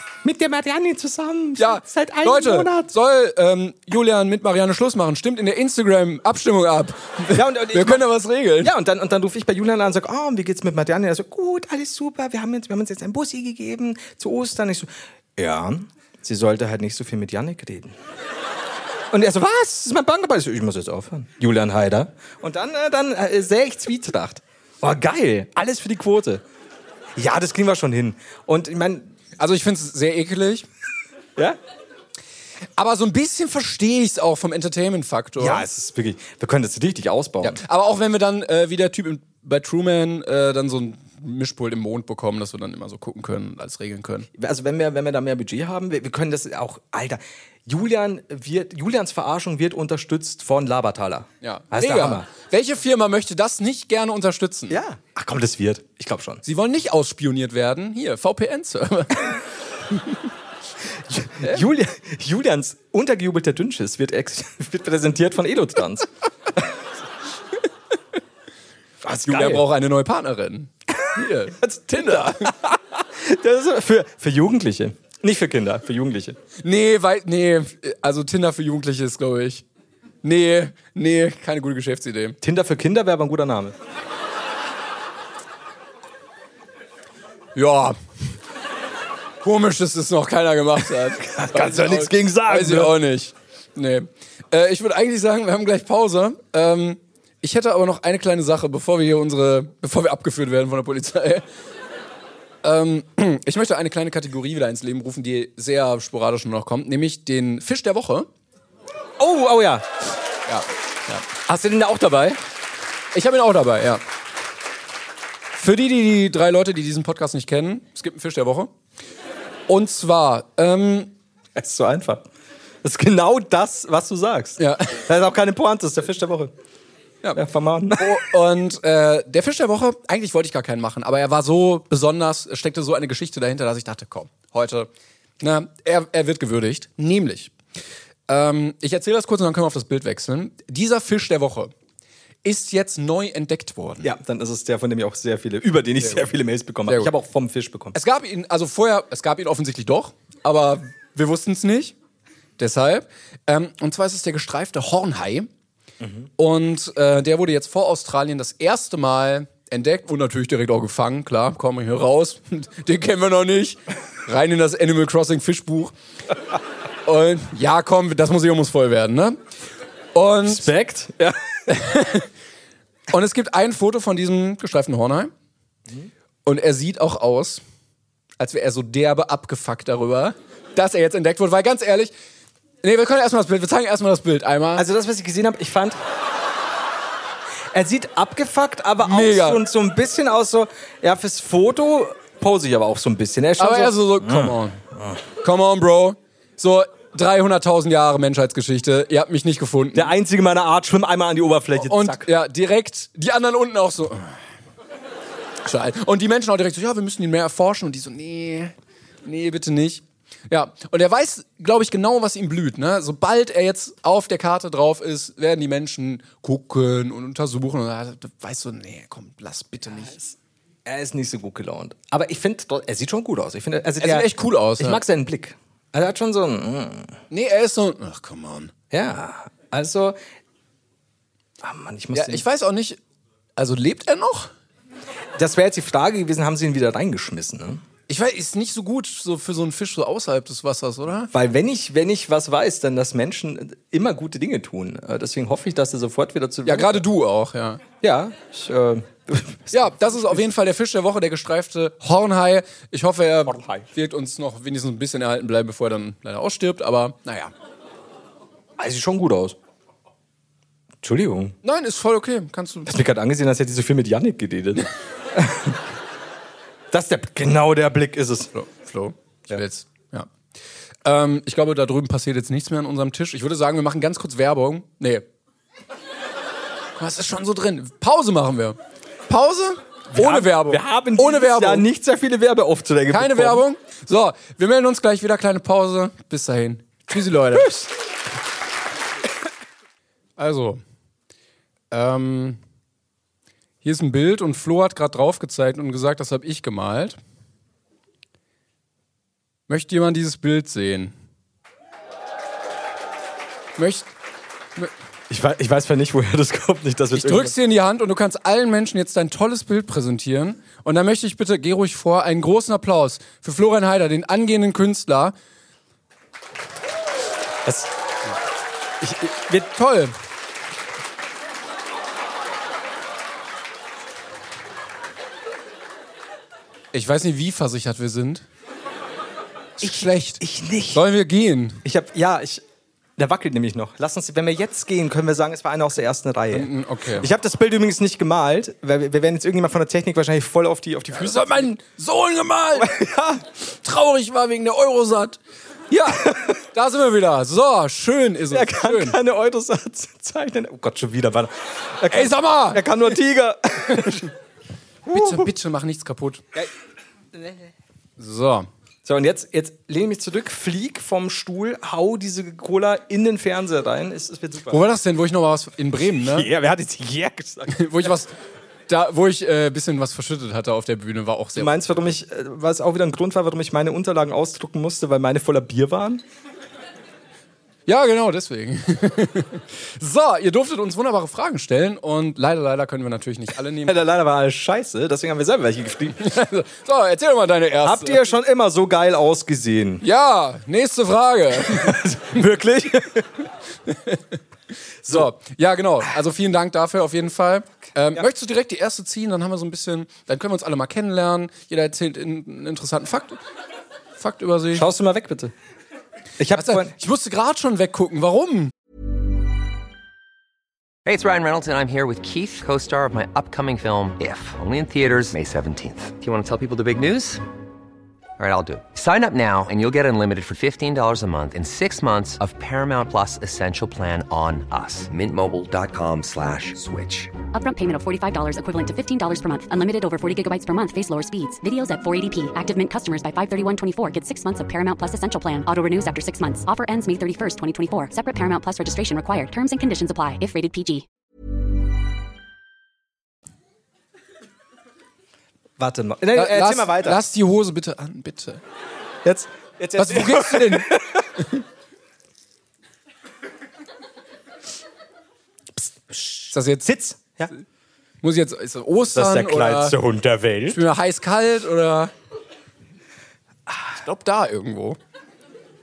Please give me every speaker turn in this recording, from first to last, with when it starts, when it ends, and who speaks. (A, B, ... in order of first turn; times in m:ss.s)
0:00.2-0:02.9 A
0:01.6-0:08.7 B
0:07.3-0:08.1 A
0:08.6-0:18.0 A
0:19.1-0:26.4 A
0:27.2-0:29.2 A
0:29.4-0:30.7 B
0:32.8-0:35.7 B
0:35.4-0:37.6 A
0:37.4-0:44.3 B
0:44.4-0:52.3 A
0:51.4-0:54.8 B
0:54.7-0:56.4 A
0:56.4-1:00.2 B
1:01.1-1:06.7 A
1:09.0-1:09.6 A
1:09.2-1:12.5 B
1:11.5-1:16.4 A
1:16.6-1:19.6 B
1:20.2-1:22.4 B
1:22.4-1:23.7 A
1:27.5-1:28.4 B
1:29.4-1:41.4 B
1:31.2-1:32.9 A
1:42.6-1:48.3 B
1:49.2-1:49.9 A
1:50.5-1:51.2 B
1:51.4-1:52.4 A
1:53.1-1:54.0 B
1:55.5-1:58.7 B
1:59.7-2:01.1 B
2:01.6-2:02.2 A
2:02.8-2:06.5 A
2:04.6-2:05.0 B
2:07.3-2:08.2 A
2:08.0-2:14.9 B
2:15.4-2:17.5 B
2:18.3-2:21.7 B
2:22.4-2:24.1 B
2:24.0-2:28.0 A
2:26.0-2:26.3 B
2:27.9-2:31.9 B
2:32.6-2:35.5 B
2:36.0-2:36.3 A
2:36.4-2:45.9 B
2:47.0-2:49.4 B
2:50.1-2:50.7 B
2:50.4-2:51.4 A
2:51.7-2:52.3 B
2:53.1-2:55.3 B
2:56.4-2:57.6 B
2:58.4-3:02.1 B
3:02.8-3:04.8 B
3:04.8-3:06.0 A
3:07.7-3:14.5 A
3:09.0-3:09.6 B
3:13.6-3:14.8 B
3:15.4-3:20.1 B
3:19.9-3:22.3 A
3:21.8-3:24.4 B
3:25.6-3:40.2 B
3:40.8-3:47.2 A
3:44.0-3:45.0 B
3:47.3-3:48.7 B
3:48.9-3:50.2 A
3:51.6-3:52.4 A
3:52.1-3:53.0 B
3:53.6-3:54.5 B
3:55.4-3:57.8 A
3:58.1-4:01.3 B
4:01.3-4:07.0 A
4:06.6-4:07.8 B
4:08.0-4:10.4 A
4:09.7-4:17.5 B
4:13.5-4:13.8 A
4:18.8-4:19.6 A
4:21.0-4:21.5 A
4:21.6-4:22.9 B
4:22.8-4:25.8 A
4:26.9-4:28.5 A
4:28.5-4:30.3 B
4:31.0-4:35.2 B
4:37.0-4:41.9 B
4:40.1-4:43.6 A
4:43.1-4:47.8 B
4:47.5-4:47.9 A
4:50.4-4:50.8 B
4:51.9-4:52.6 B
4:53.8-4:57.2 B
4:59.7-5:01.1 B
5:03.8-5:04.1 B
5:05.3-5:07.5 A
5:07.1-5:15.3 B
5:17.6-5:17.9 A
5:19.0-5:20.1 B
5:26.9-5:28.4 B
5:29.8-5:30.4 B
5:29.8-5:31.0 A
5:30.9-5:31.8 B
5:31.8-5:32.6 A
5:33.2-5:41.7 A
5:36.5-5:37.3 B
5:41.1-5:42.9 B
5:42.8-5:43.4 A
5:43.7-5:45.4 B
5:45.9-5:49.2 B
5:46.1-5:46.6 A
5:48.5-5:54.3 A
5:52.1-5:53.0 B
5:55.0-5:55.5 A
5:55.1-5:56.4 B
5:57.3-5:57.6 A
5:58.2-5:58.7 B
5:59.0-6:04.8 A
6:04.7-6:06.5 B
6:06.2-6:08.0 A
6:07.7-6:08.3 B
6:08.9-6:12.0 B
6:11.6-6:16.2 A
6:17.9-6:24.0 B
6:23.8-6:26.3 A
6:26.2-6:28.3 B
6:27.8-6:30.0 A
6:30.0-6:32.0 B
6:31.6-6:33.4 A
6:33.9-6:34.4 B
6:35.1-6:43.4 B
6:44.2-6:44.8 B
6:44.7-6:45.5 A
6:46.4-6:46.9 A
6:46.5-6:48.7 B
6:51.0-6:57.4 C
6:58.4-7:07.3 C
7:07.5-7:21.0 D
7:25.8-7:27.2 A
7:26.3-7:28.6 B
7:29.2-7:31.3 A
7:30.0-7:31.0 B
7:35.8-7:37.5 A
7:36.5-7:36.9 B
7:38.2-7:40.0 B
7:39.1-7:40.8 A
7:40.7-7:42.1 B
7:43.9-7:45.0 B